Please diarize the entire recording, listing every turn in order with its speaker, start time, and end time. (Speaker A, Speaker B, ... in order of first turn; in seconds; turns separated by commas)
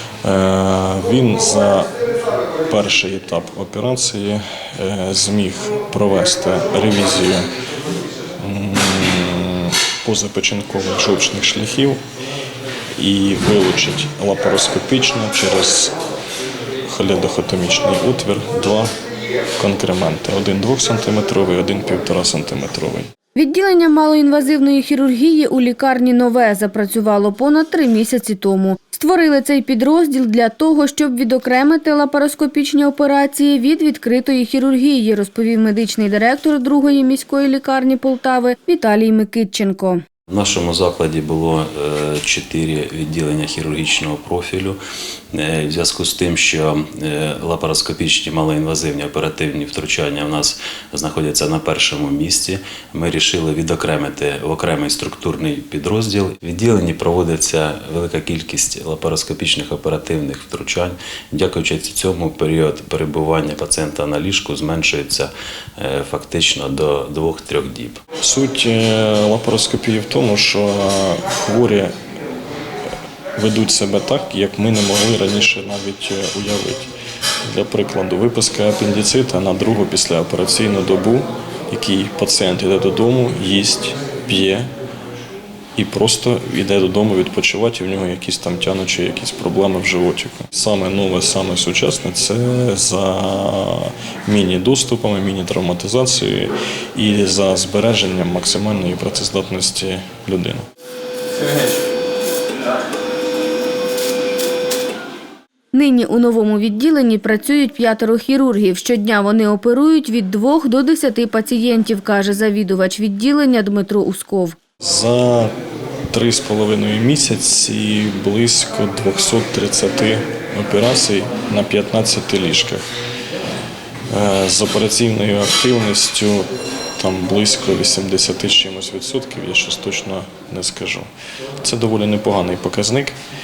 Speaker A: 0.2-1.9, Speaker A: 2.7-7.5, Speaker A: 8.4-12.0, Speaker A: 13.0-15.9, Speaker A: 16.8-18.9, Speaker A: 19.6-23.1, Speaker B: 23.3-40.0, Speaker C: 40.3-44.8, Speaker C: 45.3-68.0, Speaker A: 68.2-71.9, Speaker A: 73.3-76.9, Speaker A: 77.4-84.7, Speaker A: 85.8-100.6, Speaker B: 105.7-114.6, Speaker A: 114.8-115.5, Speaker A: 116.1-122.8, Speaker A: 124.1-131.1, Speaker A: 131.6-133.2